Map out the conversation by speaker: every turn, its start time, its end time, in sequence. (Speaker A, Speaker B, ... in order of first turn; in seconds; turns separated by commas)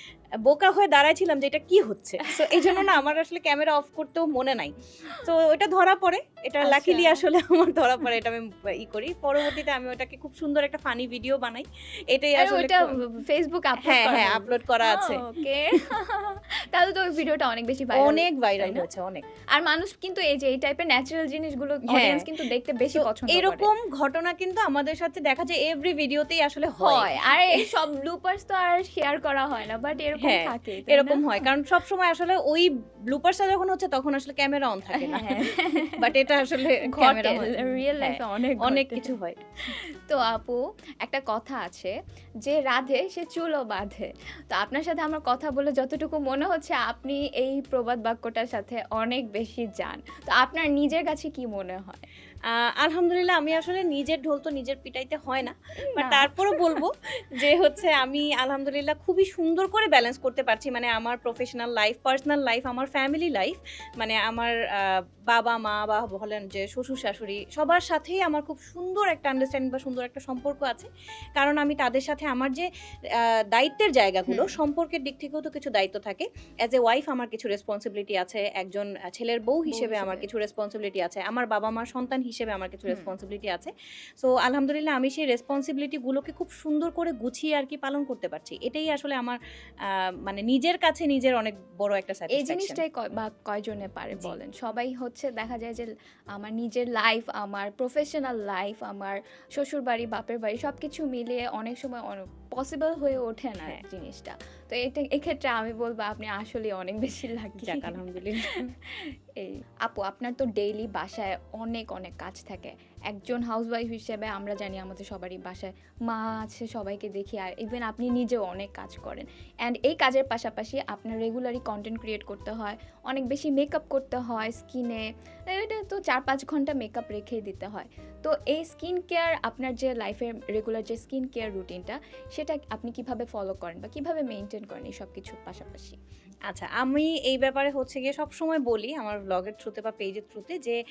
Speaker A: 0.5-13.0, Speaker B: 2.2-2.9, Speaker B: 6.6-7.2, Speaker B: 12.3-18.9, Speaker A: 13.8-15.2, Speaker A: 17.9-19.2, Speaker B: 19.5-23.7, Speaker A: 21.8-22.3, Speaker A: 22.9-27.7, Speaker B: 26.8-31.4, Speaker A: 30.2-39.4, Speaker B: 34.9-39.1, Speaker B: 39.7-52.0, Speaker A: 52.5-92.8, Speaker B: 55.8-56.8, Speaker B: 74.3-74.6, Speaker B: 79.7-80.3, Speaker B: 92.3-136.0, Speaker A: 107.6-108.7, Speaker A: 136.5-140.8